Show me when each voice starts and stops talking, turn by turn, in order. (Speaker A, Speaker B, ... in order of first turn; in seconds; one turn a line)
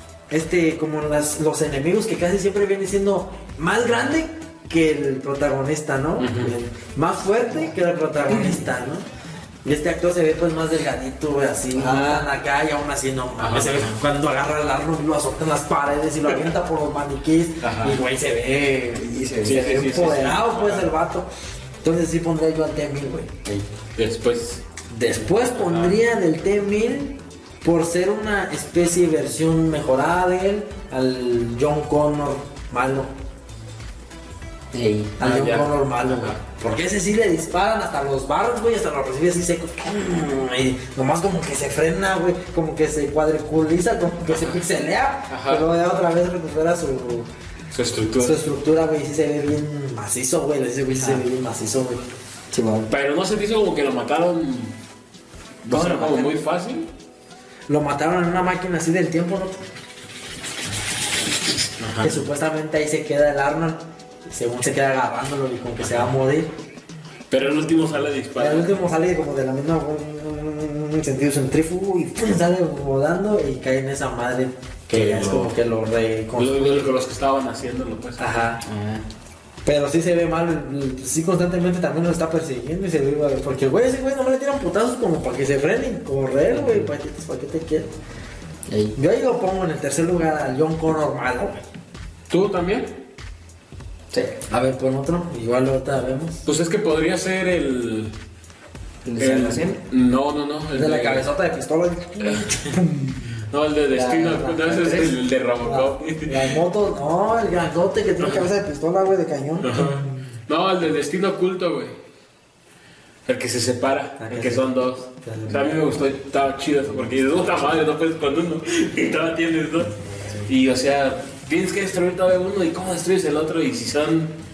Speaker A: 0.3-9.0
Speaker B: 6.2-6.5
Speaker A: 9.6-21.3
Speaker C: 11.7-12.3
Speaker B: 13.4-13.9
Speaker B: 17.6-18.0
Speaker C: 18.9-19.9
Speaker B: 19.4-20.9
Speaker A: 21.8-23.3
Speaker B: 23.9-24.6
Speaker C: 24.9-25.2
Speaker A: 25.1-33.1
Speaker B: 25.5-26.0
Speaker C: 34.7-35.1
Speaker A: 35.2-47.3
Speaker B: 35.2-36.4
Speaker B: 44.3-44.6
Speaker B: 45.3-45.7
Speaker B: 47.7-48.5
Speaker A: 48.2-52.0
Speaker C: 51.0-51.2
Speaker C: 52.5-52.9
Speaker B: 52.9-54.8
Speaker B: 55.6-56.9
Speaker C: 55.7-56.4
Speaker A: 57.7-59.6
Speaker B: 61.8-62.2
Speaker A: 62.0-66.5
Speaker B: 65.8-66.1
Speaker B: 67.3-68.8
Speaker A: 68.3-76.9
Speaker B: 74.9-75.5
Speaker B: 76.3-78.4
Speaker A: 78.2-78.6
Speaker C: 78.6-79.0
Speaker A: 79.6-87.9
Speaker C: 86.5-86.9
Speaker C: 88.7-89.0
Speaker A: 88.9-91.6
Speaker B: 92.3-92.9
Speaker A: 94.5-96.4
Speaker B: 96.4-98.1
Speaker C: 99.0-99.8
Speaker B: 99.2-101.3
Speaker A: 100.7-103.4
Speaker B: 102.2-102.7
Speaker B: 103.5-106.5
Speaker A: 104.0-110.2
Speaker B: 108.2-108.5
Speaker B: 109.6-111.9
Speaker B: 113.2-124.3
Speaker A: 114.2-115.7